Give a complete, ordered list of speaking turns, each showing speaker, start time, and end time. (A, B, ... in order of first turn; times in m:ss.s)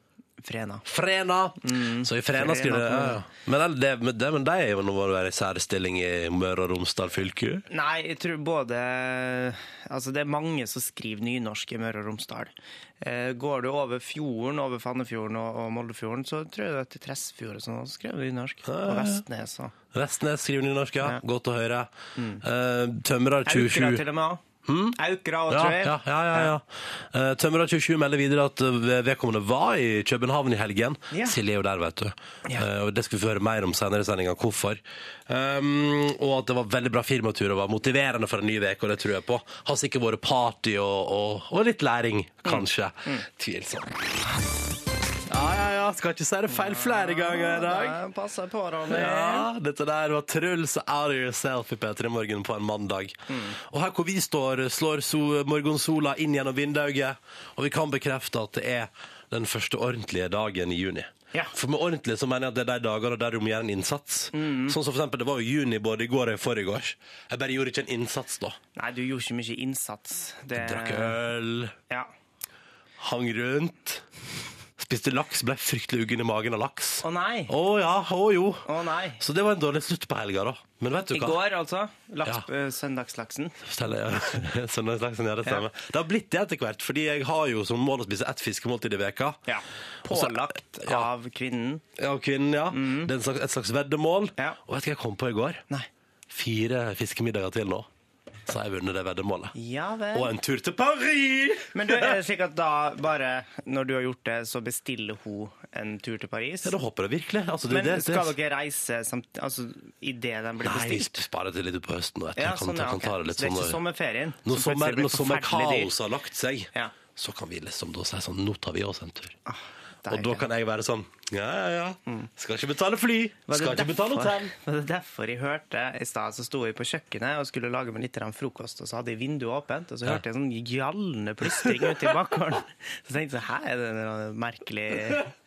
0:00.4-0:00.8 A
0:00.8-0:07.6 B
0:01.6-0:03.2 A
0:07.7-0:19.7 A
0:18.6-0:19.2 B
0:19.9-0:24.0 B
0:22.2-0:22.4 A
0:23.4-0:26.5 A
0:24.6-0:25.0 B
0:25.5-0:44.0 B
0:31.1-0:31.4 A
0:42.4-0:43.2 A
0:45.3-0:48.0 B
0:46.5-0:49.5 A
0:48.9-1:08.6 B
0:53.3-0:53.6 A
1:04.3-1:04.8 A
1:08.8-1:11.2 A
1:10.6-1:11.8 B
1:13.0-1:14.0 B
1:14.8-1:18.7 B
1:17.0-1:17.5 A
1:18.6-1:19.2 A
1:19.2-1:21.4 B
1:21.1-1:23.7 A
1:23.6-1:29.4 B
1:29.5-1:31.8 A
1:30.1-1:31.1 B
1:32.0-1:35.6 B
1:32.7-1:33.1 A
1:36.3-1:37.9 B
1:38.4-1:39.6 B
1:39.5-1:40.3 A
1:40.1-1:42.2 B
1:41.7-1:46.8 A
1:46.6-1:48.3 B
1:47.7-1:51.2 A
1:50.6-1:53.8 B
1:52.4-1:55.9 A
1:54.4-1:59.4 B
1:59.4-2:00.5 A
2:00.1-2:04.5 B
2:03.5-2:15.3 A
2:11.6-2:12.1 B